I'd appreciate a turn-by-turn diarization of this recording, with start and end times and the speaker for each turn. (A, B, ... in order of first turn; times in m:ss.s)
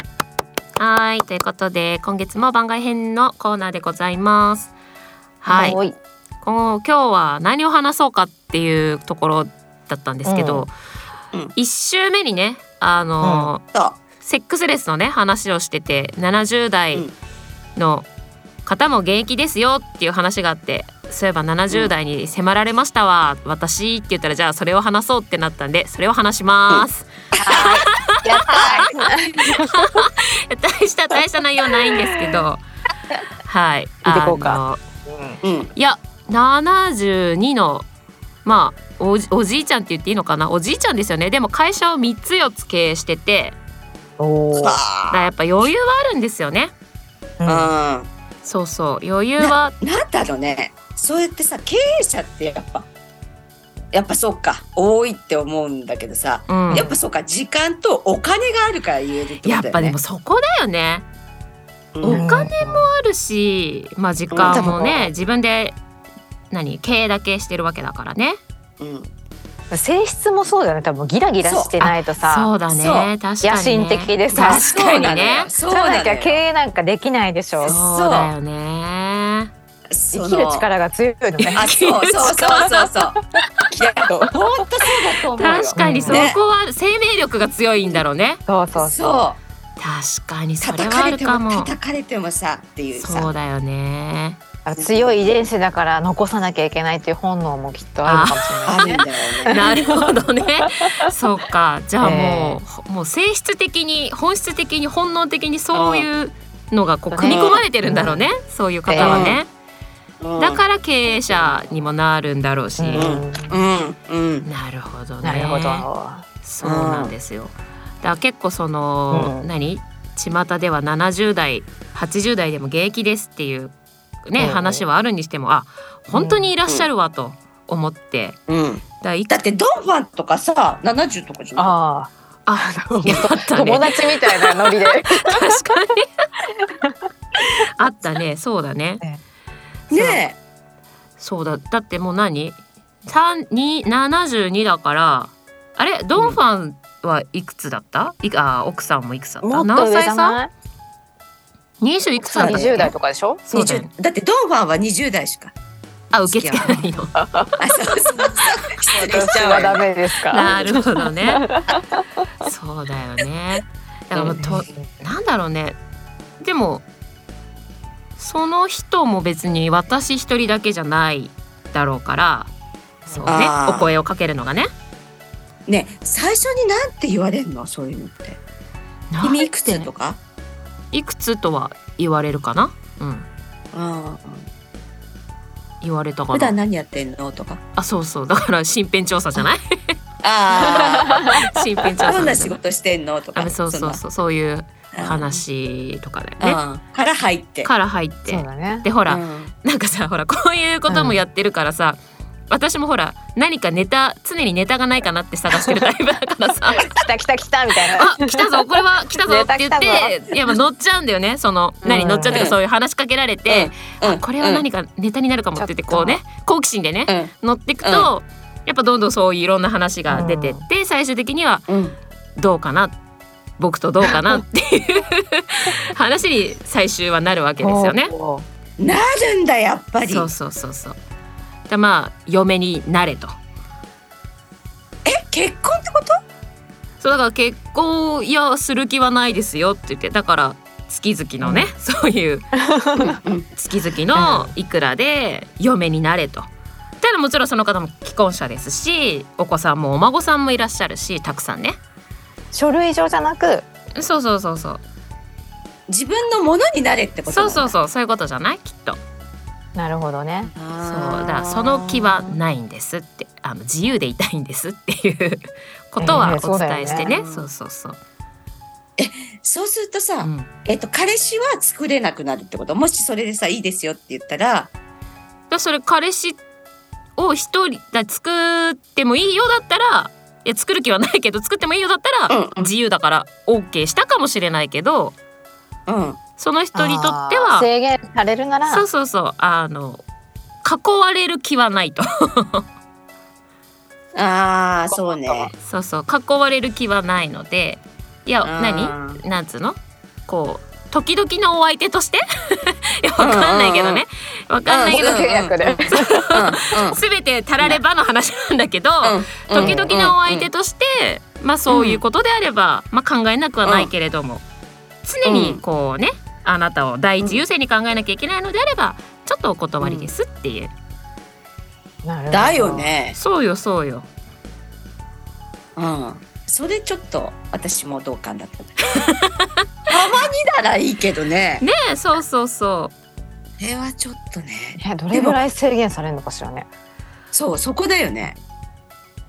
0:00.8-0:04.7 A
0:05.4-0:05.8 A
0:05.5-0:06.0 B
0:06.4-0:10.7 A
0:10.2-0:10.7 B
0:11.6-0:13.6 A
0:13.2-0:13.5 B
0:13.7-0:14.0 C
0:14.2-0:17.1 A
0:17.8-0:18.1 A
0:18.6-0:27.9 A
0:26.7-0:27.7 C
0:27.4-0:30.0 B
0:28.4-0:28.9 A
0:28.5-0:28.9 C
0:29.5-0:32.6 A
0:31.7-0:32.4 B
0:33.5-0:34.8 A
0:34.0-0:35.4 B
0:35.4-0:35.7 C
0:35.8-0:37.8 A
0:38.4-0:43.6 A
0:44.2-0:44.8 B
0:44.6-0:45.3 C
0:45.1-0:46.7 A
0:47.4-0:47.7 B
0:47.4-0:48.1 C
0:48.4-0:49.7 A
0:49.4-0:52.8 C
0:53.9-1:00.0 C
0:56.5-0:56.9 A
0:56.7-0:57.0 B
0:59.4-1:01.0 A
1:01.9-1:02.2 C
1:02.0-1:05.8 A
1:02.1-1:02.9 B
1:04.3-1:04.7 C
1:04.5-1:05.1 B
1:06.5-1:08.4 A
1:08.8-1:09.1 C
1:09.7-1:12.5 B
1:11.4-1:11.7 C
1:11.8-1:15.5 A
1:12.7-1:13.1 C
1:13.4-1:14.7 B
1:14.3-1:16.4 C
1:15.7-1:17.8 B
1:17.6-1:19.5 A
1:17.6-1:18.3 C
1:19.9-1:20.7 C
1:20.1-1:21.6 B
1:21.4-1:22.7 A
1:21.6-1:23.2 C
1:23.7-1:26.4 C
1:24.0-1:24.3 B
1:25.4-1:28.4 A
1:25.7-1:26.3 B
1:28.5-1:29.3 B
1:28.8-1:29.4 C
1:29.8-1:31.7 A
1:30.6-1:33.3 C
1:32.9-1:34.4 A
1:34.6-1:40.6 B
1:34.8-1:35.3 C
1:38.0-1:38.8 A
1:38.6-1:39.6 C
1:39.5-1:49.5 A
1:42.0-1:42.6 B
1:45.7-1:46.1 C
1:47.1-1:48.2 B
1:47.2-1:47.6 C
1:48.9-1:49.3 B
1:49.0-1:49.4 C
1:50.2-1:50.6 C
1:50.4-1:53.2 A
1:52.8-1:53.6 B
1:53.0-1:54.5 C
1:54.4-1:55.9 A
1:55.2-1:56.2 B
1:56.4-2:03.7 A
1:56.6-1:57.1 C
1:59.1-1:59.5 B
2:04.2-2:08.4 A
2:04.4-2:04.8 B
2:06.1-2:06.5 B
2:08.5-2:11.7 C
2:09.0-2:09.4 A
2:11.6-2:15.6 B
2:12.5-2:16.0 A
2:17.7-2:19.0 A
2:19.9-2:20.2 A
2:19.9-2:20.4 C
2:21.2-2:30.4 A
2:29.4-2:30.5 B
2:31.8-2:32.9 A
2:32.2-2:33.4 B
2:32.4-2:32.9 C
2:33.4-2:33.9 A
2:33.5-2:35.5 C
2:36.1-2:37.2 A
2:36.3-2:36.8 C
2:36.5-2:37.6 B
2:37.6-2:39.8 C
2:39.0-2:42.0 B
2:40.3-2:41.5 A
2:40.4-2:40.8 C
2:42.4-2:45.8 A
2:44.2-2:44.9 B
2:46.4-2:46.8 A
2:48.2-2:52.5 A
2:53.0-2:54.7 A
2:53.1-2:53.4 B
2:53.3-2:53.9 C
2:55.7-2:58.4 C
2:59.1-2:59.9 A
2:59.2-3:00.2 C
3:00.9-3:03.3 A
3:03.7-3:04.5 C
3:05.8-3:06.6 A
3:06.3-3:07.6 C
3:07.8-3:09.9 A
3:10.2-3:11.2 C
3:10.6-3:12.6 A
3:12.0-3:14.0 C
3:13.3-3:16.6 A
3:14.9-3:15.4 C
3:16.4-3:17.7 C
3:17.6-3:22.0 A
3:18.3-3:18.9 B
3:19.0-3:19.5 C
3:20.9-3:21.2 B
3:22.5-3:26.8 A
3:26.8-3:28.6 B
3:28.0-3:41.7 A
3:29.2-3:30.2 B
3:31.8-3:32.4 B
3:32.3-3:32.6 C
3:33.5-3:34.6 C
3:35.6-3:36.2 B
3:37.8-3:38.1 C
3:40.1-3:40.7 B
3:41.7-3:42.0 C
3:42.4-3:43.0 A
3:43.6-3:48.1 A
3:44.0-3:44.4 B
3:47.6-3:48.4 B
3:48.8-3:50.3 C
3:50.0-3:51.0 A
3:51.7-3:53.4 A
3:55.0-3:56.2 C
3:57.0-4:02.5 A
4:01.4-4:01.7 B
4:02.7-4:03.2 B
4:03.2-4:03.5 C
4:03.6-4:06.5 A
4:04.1-4:04.5 B
4:07.0-4:11.8 A
4:12.5-4:13.6 B
4:14.0-4:14.8 A
4:15.9-4:17.7 C
4:17.3-4:19.0 A
4:19.7-4:20.5 B
4:20.5-4:22.4 C
4:20.8-4:28.0 A
4:26.0-4:27.1 B
4:27.0-4:27.5 C
4:29.0-4:34.7 C
4:30.2-4:30.5 A
4:35.5-4:36.4 A
4:37.2-4:45.1 A
4:42.3-4:42.7 C
4:45.9-4:46.2 C
4:46.4-4:47.7 A
4:46.7-4:48.8 B
4:48.7-4:50.0 A
4:50.6-4:52.6 A
4:54.1-4:55.5 C
4:54.9-4:55.5 B
4:55.6-5:05.2 A
4:58.4-4:59.2 C
5:03.2-5:04.0 C
5:04.7-5:07.0 C
5:04.9-5:06.2 B
5:05.9-5:14.4 A
5:09.0-5:10.5 C
5:09.6-5:09.9 B
5:11.7-5:12.0 C
5:13.6-5:13.9 C
5:15.0-5:20.7 A
5:15.2-5:15.6 C
5:19.8-5:20.1 C
5:22.0-5:22.9 B
5:22.3-5:23.2 C
5:23.1-5:24.1 A
5:25.8-5:29.0 C
5:29.0-5:29.5 A
5:29.9-5:31.6 C
5:31.6-5:32.9 A
5:33.6-5:35.4 C
5:34.8-5:36.7 B
5:37.3-5:38.4 C